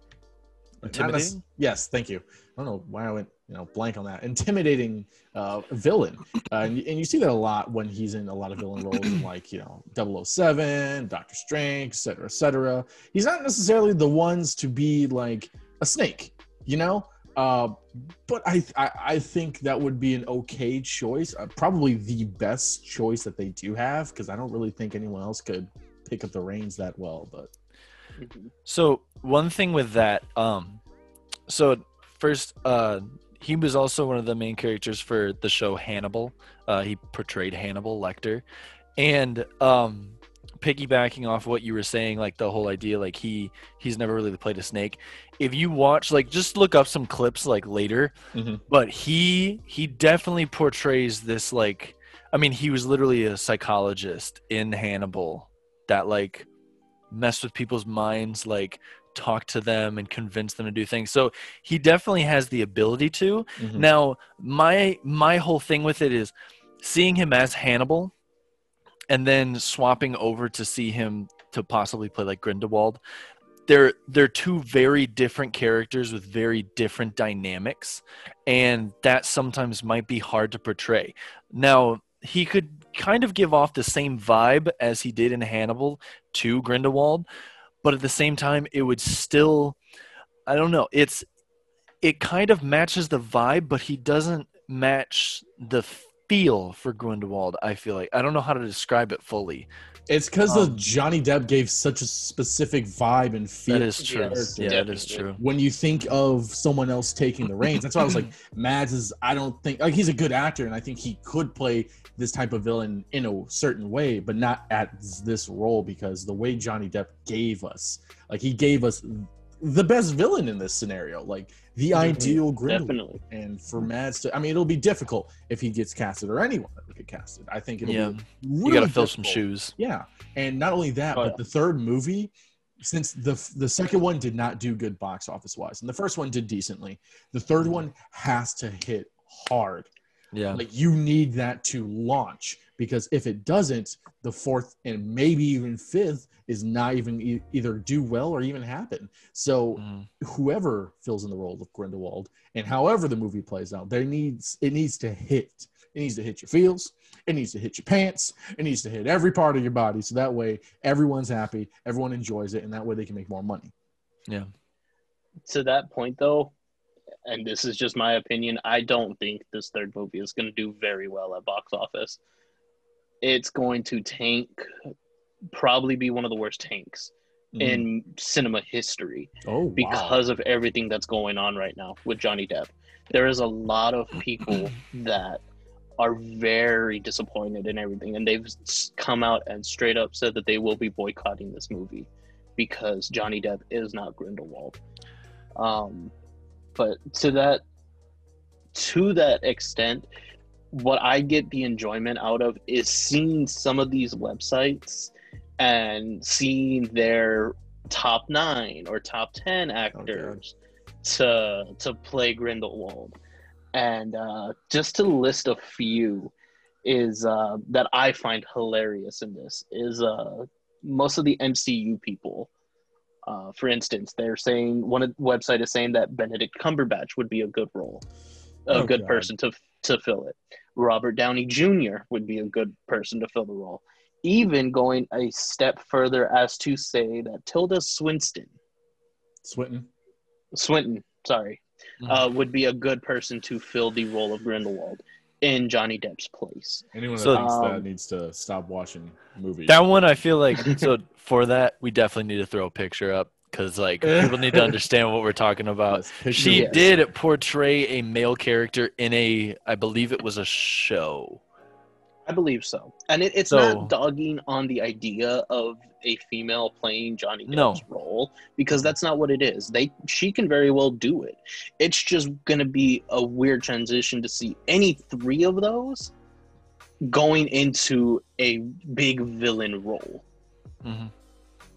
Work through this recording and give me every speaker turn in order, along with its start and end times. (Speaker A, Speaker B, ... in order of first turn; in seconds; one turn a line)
Speaker A: 0.8-27.5
Speaker B: 0.9-1.4
Speaker C: 28.2-28.5
Speaker B: 28.6-30.8
Speaker B: 31.5-38.5
Speaker B: 39.0-48.1
Speaker A: 48.3-48.6
Speaker B: 48.7-56.5
Speaker B: 57.1-68.1
Speaker A: 63.6-63.9
Speaker B: 69.1-73.0
Speaker B: 73.7-87.3
Speaker B: 87.8-89.8
Speaker B: 90.5-91.2
Speaker B: 92.0-99.7
Speaker A: 100.1-104.8
Speaker B: 100.5-100.8
Speaker B: 103.7-105.4
Speaker C: 104.0-105.3
Speaker A: 105.4-139.9
Speaker B: 108.0-108.3
Speaker C: 122.0-123.2
Speaker B: 127.8-129.7
Speaker B: 140.3-140.6
Speaker A: 140.5-163.7
Speaker B: 149.8-150.1
Speaker C: 165.5-166.5
Speaker C: 167.3-172.2
Speaker C: 173.2-174.7
Speaker C: 175.5-185.4
Speaker A: 177.6-177.9
Speaker A: 179.5-180.2
Speaker C: 186.0-194.8
Speaker C: 195.6-196.1
Speaker C: 196.8-197.6
Speaker C: 198.7-200.1
Speaker C: 200.7-213.2
Speaker A: 209.9-210.4
Speaker C: 213.7-216.3
Speaker C: 216.8-222.5
Speaker C: 223.3-228.1
Speaker C: 228.7-238.5
Speaker A: 228.7-229.3
Speaker A: 239.4-239.9
Speaker C: 240.5-247.9
Speaker A: 246.9-249.8
Speaker B: 247.2-247.5
Speaker B: 249.7-261.4
Speaker C: 250.6-250.9
Speaker A: 254.0-254.8
Speaker A: 255.9-256.9
Speaker C: 256.4-256.9
Speaker C: 262.3-276.1
Speaker B: 263.5-263.9
Speaker B: 267.5-267.8
Speaker C: 277.0-280.2
Speaker B: 280.8-281.1